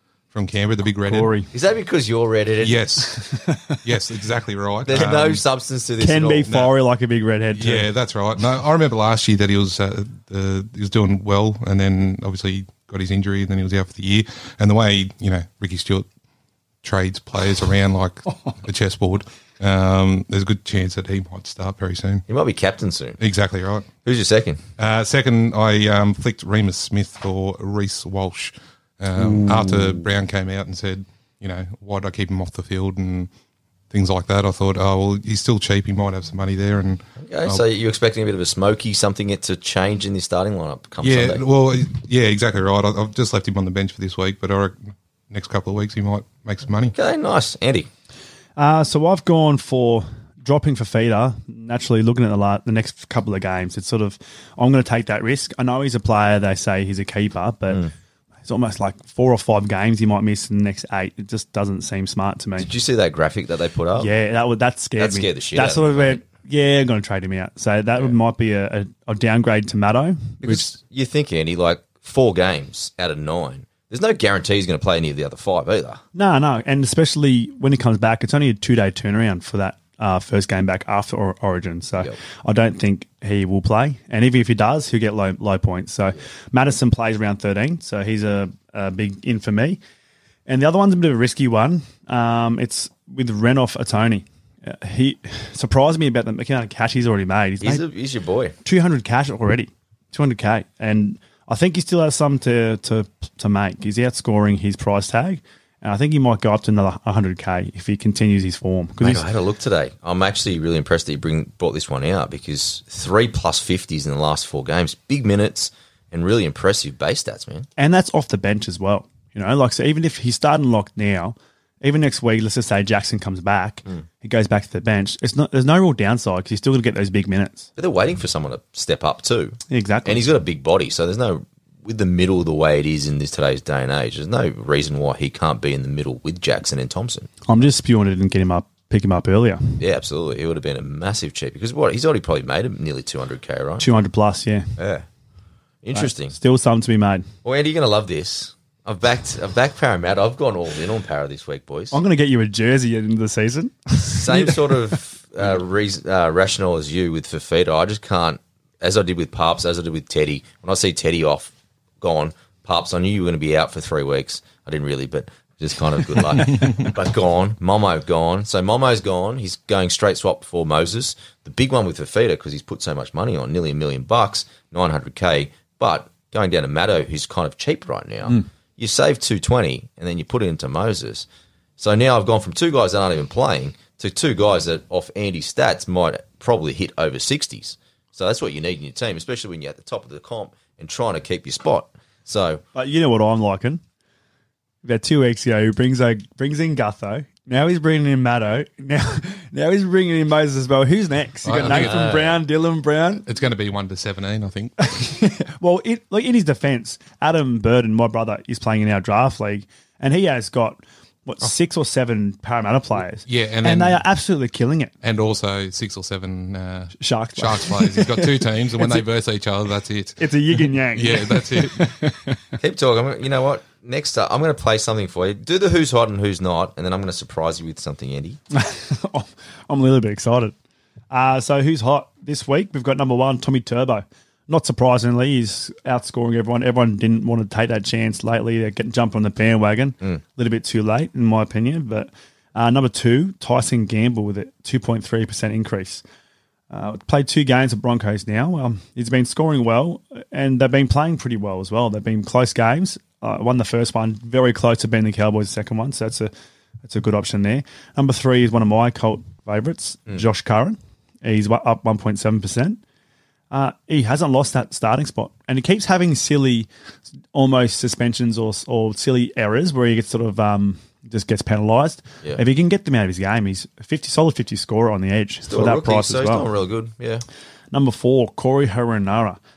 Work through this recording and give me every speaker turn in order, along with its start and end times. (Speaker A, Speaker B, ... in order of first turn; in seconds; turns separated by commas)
Speaker A: 0.3-1.3, Speaker B: 1.0-1.5, Speaker C: 1.5-2.9, Speaker A: 2.6-5.4, Speaker C: 4.8-6.7, Speaker B: 6.0-7.9, Speaker A: 7.5-16.1, Speaker A: 16.8-22.2, Speaker C: 22.3-23.2, Speaker A: 23.2-23.9, Speaker C: 24.0-24.6, Speaker A: 24.8-33.3, Speaker A: 33.9-37.6, Speaker C: 37.2-41.4, Speaker A: 41.0-46.9, Speaker C: 46.9-47.9, Speaker B: 48.6-57.9, Speaker B: 58.4-62.7, Speaker C: 62.6-64.1, Speaker B: 64.0-70.7, Speaker C: 65.0-66.2, Speaker C: 70.4-76.0, Speaker B: 76.1-89.8, Speaker B: 90.5-97.8, Speaker C: 97.6-98.5, Speaker B: 98.6-109.2, Speaker C: 109.0-117.7, Speaker B: 117.8-127.7, Speaker C: 127.8-137.3, Speaker B: 129.7-130.3, Speaker B: 137.5-139.8, Speaker C: 139.8-143.9, Speaker B: 143.8-144.7, Speaker C: 144.8-145.1, Speaker C: 145.8-146.3, Speaker B: 145.9-147.3, Speaker C: 147.4-151.9, Speaker B: 151.9-155.0, Speaker C: 153.9-181.3, Speaker C: 181.8-192.6, Speaker B: 192.7-193.8, Speaker B: 194.8-203.2, Speaker A: 201.4-202.0, Speaker C: 201.6-202.4, Speaker A: 203.2-204.8, Speaker B: 204.9-214.9, Speaker A: 213.2-214.0, Speaker A: 215.0-221.8, Speaker B: 217.0-219.0, Speaker B: 220.2-222.6, Speaker C: 222.6-228.4, Speaker B: 228.5-230.5, Speaker B: 231.1-246.0, Speaker B: 246.7-256.3, Speaker B: 256.8-262.8, Speaker B: 263.5-266.7, Speaker B: 267.3-276.5, Speaker C: 275.5-277.2, Speaker B: 277.7-279.4